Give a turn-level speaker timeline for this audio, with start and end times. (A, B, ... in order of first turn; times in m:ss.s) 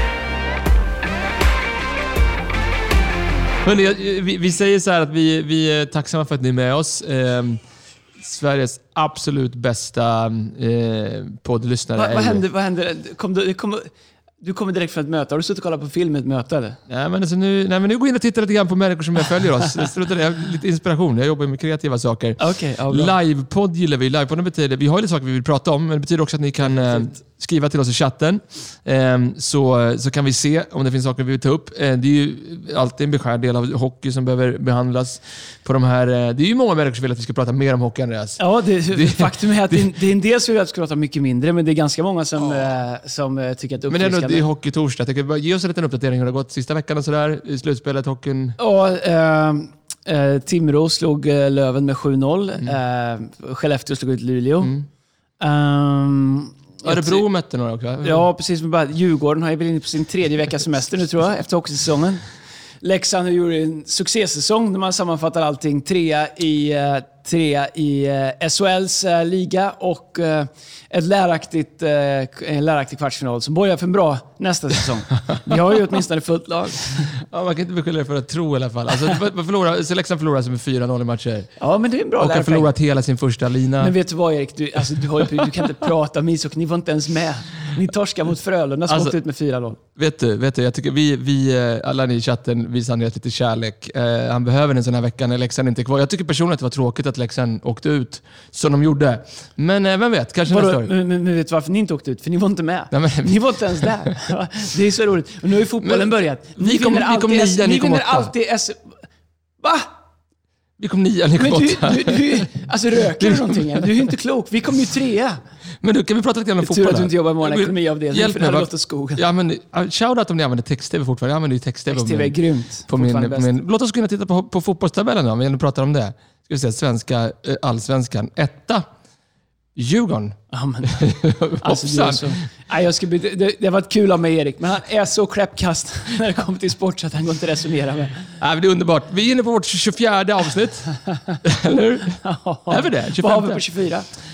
0:03.6-0:07.6 A
0:08.2-0:12.4 A
0:12.0-0:16.8 B
0:16.9-0:39.9 A
0:22.4-0:23.1 B
0:38.4-0:44.4 B
0:43.9-0:48.6 A
0:48.6-0:54.8 B
0:55.4-0:57.2 B
0:56.8-0:58.2 A
0:58.0-1:02.3 B
1:02.8-1:17.2 B
1:17.1-1:21.5 A
1:21.6-1:22.7 B
1:22.2-1:23.9 A
1:23.8-1:29.8 B
1:28.9-1:29.2 A
1:30.0-1:40.9 A
1:40.5-1:49.0 B
1:42.9-1:44.1 A
1:45.8-1:48.3 A
1:49.6-1:49.9 B
1:50.8-1:52.5 A
1:51.4-1:55.4 B
1:53.2-1:53.8 A
1:55.8-2:08.9 A
1:56.6-1:59.2 B
2:01.9-2:03.5 B
2:09.8-2:12.3 A
2:10.5-2:18.3 B
2:18.4-2:22.2 A
2:22.2-2:24.1 B
2:22.7-2:23.6 A